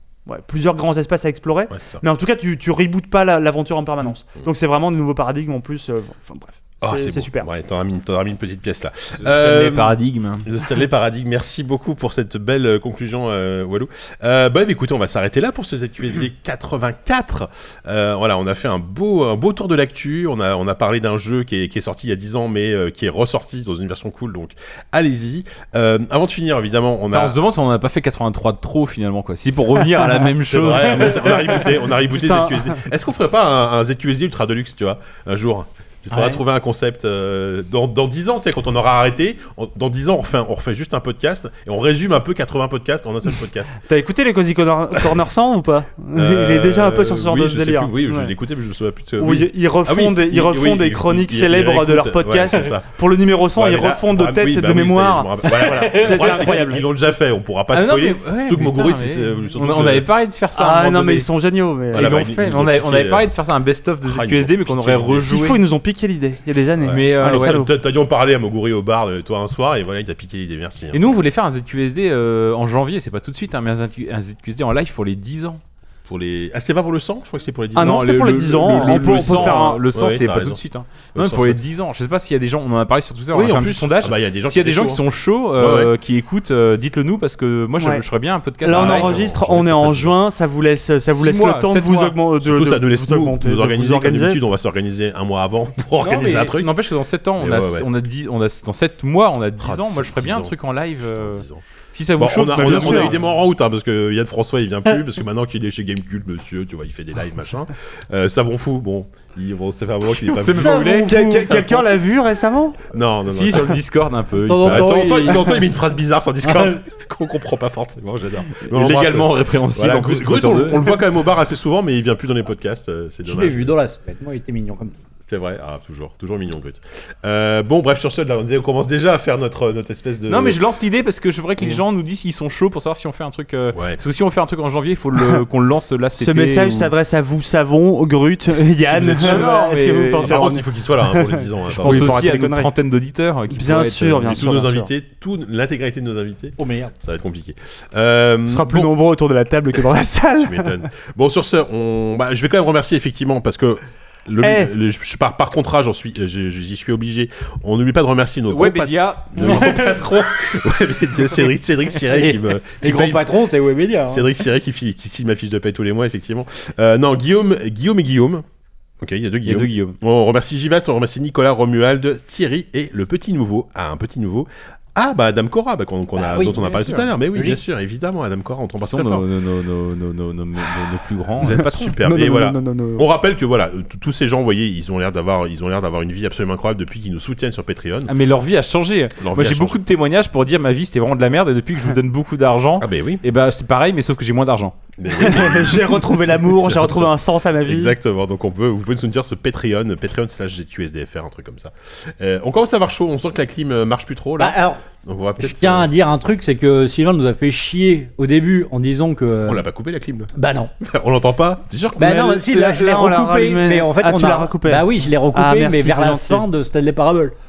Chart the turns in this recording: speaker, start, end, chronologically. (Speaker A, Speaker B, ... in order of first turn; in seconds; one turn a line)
Speaker A: 0.3-7.5
Speaker B: 1.7-2.0
Speaker B: 6.8-27.4
Speaker C: 9.2-10.5
Speaker C: 27.1-31.7
Speaker A: 30.1-31.5
Speaker B: 30.5-43.8
Speaker A: 32.0-32.8
Speaker A: 43.9-48.3
Speaker B: 46.1-52.9
Speaker A: 49.2-56.8
Speaker B: 53.5-60.1
Speaker C: 55.7-56.6
Speaker C: 57.7-61.3
Speaker A: 60.5-62.3
Speaker C: 61.9-65.6
Speaker B: 61.9-63.3
Speaker B: 64.0-65.3
Speaker A: 65.2-67.7
Speaker B: 66.8-71.0
Speaker C: 66.9-67.6
Speaker C: 70.9-75.6
Speaker B: 76.1-80.6
Speaker A: 77.8-79.8
Speaker C: 77.8-90.1
Speaker B: 81.2-81.6
Speaker B: 83.3-85.0
Speaker B: 85.6-85.9
Speaker A: 88.6-94.4
Speaker B: 88.7-90.1
Speaker C: 91.1-92.2
Speaker B: 92.4-96.7
Speaker C: 96.0-103.2
Speaker B: 97.4-97.9
Speaker B: 99.6-100.5
Speaker B: 101.1-101.6
Speaker B: 102.2-111.8
Speaker A: 102.5-103.1
Speaker C: 110.2-111.8
Speaker A: 110.5-112.8
Speaker B: 112.9-113.8
Speaker C: 113.3-115.4
Speaker D: 114.5-115.6
Speaker B: 114.7-123.7
Speaker C: 118.6-120.9
Speaker D: 123.2-124.9
Speaker B: 125.2-130.6
Speaker C: 130.3-136.9
Speaker B: 133.7-134.0
Speaker A: 136.2-142.7
Speaker B: 138.8-139.5
Speaker C: 138.9-140.5
Speaker B: 140.2-142.3
Speaker C: 141.7-144.6
Speaker A: 143.5-144.9
Speaker B: 144.2-148.9
Speaker D: 146.6-146.9
Speaker A: 148.5-150.8
Speaker B: 150.4-163.4
Speaker A: 154.4-154.7
Speaker C: 158.5-160.2
Speaker D: 162.1-164.3
Speaker B: 164.1-168.4
Speaker B: 169.0-179.2
Speaker C: 169.5-170.0
Speaker D: 176.2-177.6
Speaker C: 178.8-181.7
Speaker B: 181.4-188.1
Speaker A: 181.5-183.1
Speaker C: 188.1-194.8
Speaker B: 189.2-189.8
Speaker B: 192.8-193.2
Speaker B: 195.0-197.1
Speaker A: 195.1-197.9
Speaker B: 197.6-205.9
Speaker D: 204.4-204.8
Speaker D: 205.4-209.6
Speaker B: 209.5-212.3
Speaker D: 210.3-210.7
Speaker D: 212.0-217.3
Speaker A: 212.0-216.5